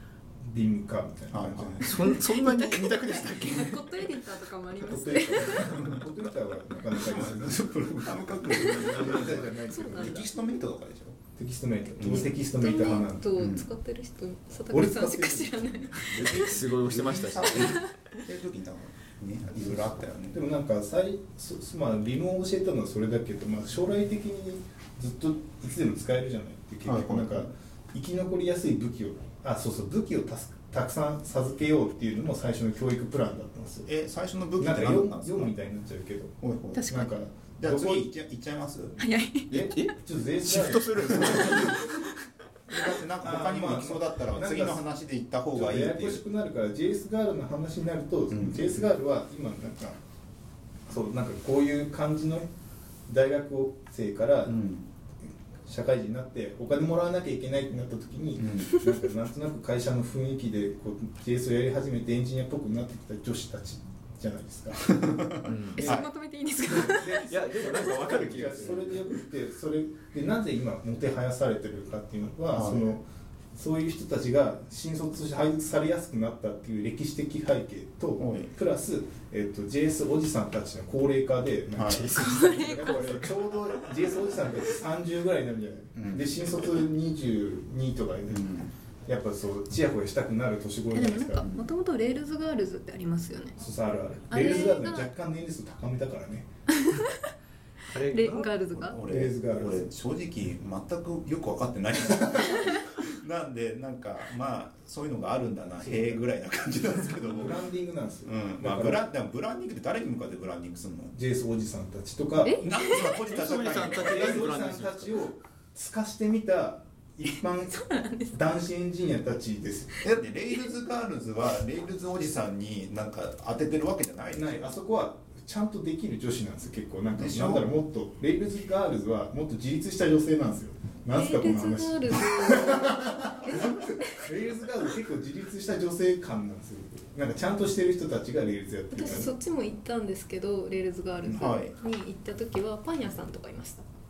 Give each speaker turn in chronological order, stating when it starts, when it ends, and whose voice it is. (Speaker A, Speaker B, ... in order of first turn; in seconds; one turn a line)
Speaker A: 0.5-2.0
Speaker B: 1.3-1.8
Speaker C: 1.8-4.1
Speaker D: 1.9-5.7
Speaker A: 4.9-10.2
Speaker C: 5.5-6.0
Speaker B: 6.9-11.2
Speaker D: 9.7-10.2
Speaker A: 11.3-13.3
Speaker B: 12.0-12.4
Speaker D: 12.4-16.6
Speaker B: 13.3-13.7
Speaker A: 14.7-16.1
Speaker B: 16.1-20.4
Speaker C: 16.1-17.9
Speaker D: 17.5-17.8
Speaker A: 19.6-33.9
Speaker B: 26.8-27.5
Speaker B: 33.8-35.5
Speaker A: 34.6-38.1
Speaker B: 36.4-36.9
Speaker D: 36.7-37.1
Speaker B: 37.6-39.0
Speaker D: 39.0-39.5
Speaker C: 39.5-42.1
Speaker A: 39.5-41.8
Speaker B: 41.2-41.5
Speaker B: 42.7-46.2
Speaker A: 43.2-44.8
Speaker A: 45.5-50.0
Speaker B: 48.3-48.9
Speaker A: 50.9-52.5
Speaker A: 53.1-54.5
Speaker B: 54.5-54.9
Speaker A: 55.6-66.1
Speaker B: 58.4-58.8
Speaker C: 65.4-65.9
Speaker D: 65.7-68.1
Speaker A: 66.6-73.0
Speaker C: 67.2-69.2
Speaker B: 72.5-72.9
Speaker A: 73.5-91.4
Speaker B: 78.2-78.5
Speaker B: 81.7-82.1
Speaker C: 81.9-83.3
Speaker D: 82.2-83.0
Speaker B: 85.9-86.3
Speaker B: 88.3-88.7
Speaker D: 90.9-93.6
Speaker A: 93.6-96.5
Speaker D: 94.3-95.1
Speaker D: 96.8-97.3
Speaker C: 97.9-98.9
Speaker D: 98.0-99.0
Speaker B: 98.8-107.6
Speaker A: 99.1-99.9
Speaker A: 105.8-106.2
Speaker A: 107.2-109.0
Speaker B: 108.2-111.1
Speaker A: 111.1-112.7
Speaker D: 112.4-113.2
Speaker B: 112.6-114.5
Speaker C: 113.2-115.1
Speaker A: 114.0-120.0
Speaker D: 117.5-118.6
Speaker B: 120.0-124.7
Speaker A: 124.3-139.3
Speaker B: 127.1-127.7
Speaker D: 131.1-134.1
Speaker D: 138.9-143.8
Speaker B: 141.2-141.7